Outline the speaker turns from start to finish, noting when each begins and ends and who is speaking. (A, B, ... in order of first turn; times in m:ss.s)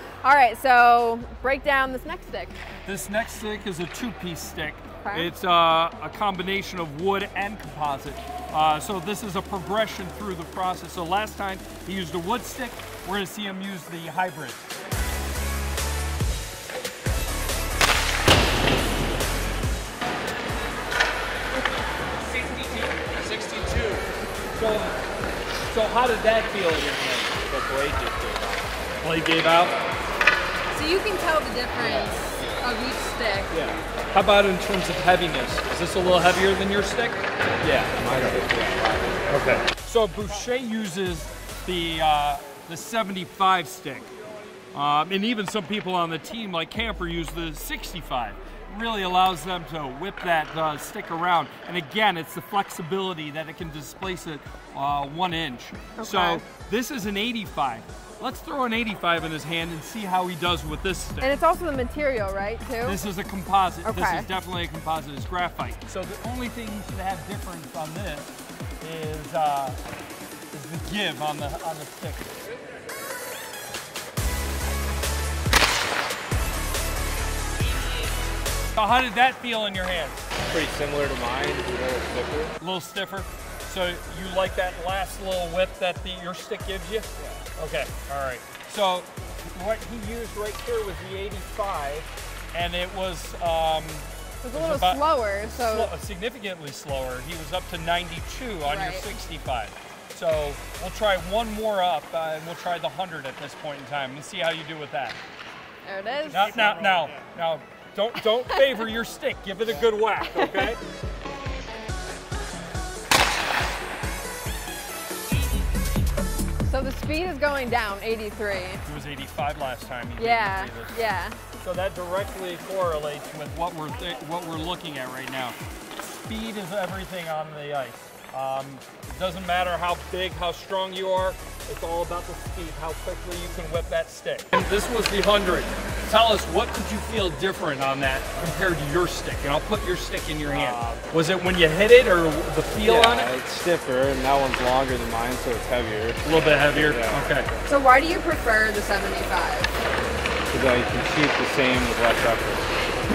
0:00.2-0:02.6 A
0:02.8-0:14.7 B
0:05.0-0:05.3 A
0:22.5-0:25.0 B
0:25.6-0:27.4 B
0:27.5-0:28.6 C
0:29.0-0:29.8 B
0:30.7-0:33.5 A
0:33.5-0:33.8 C
0:34.1-0:38.3 B
0:37.9-0:39.6 C
0:39.3-0:44.1 B
0:44.7-1:01.4 B
0:56.0-0:56.4 A
1:01.2-1:03.0 A
1:02.8-1:08.3 B
1:03.8-1:04.3 A
1:08.8-1:09.8 B
1:10.5-1:12.4 B
1:18.8-1:20.3 B
1:20.5-1:22.5 C
1:22.6-1:45.2 B
1:34.4-1:35.9 A
1:38.6-1:39.1 A
1:45.8-1:46.7 A
1:46.3-1:50.8 B
1:50.2-1:50.8 A
1:56.7-1:58.8 A
1:58.9-2:01.0 B
2:00.2-2:01.4 A
2:01.6-2:23.3 B
2:20.5-2:21.0 C
2:22.8-2:27.6 C
2:26.2-2:27.5 B
2:27.7-2:29.7 A
2:30.5-2:32.7 C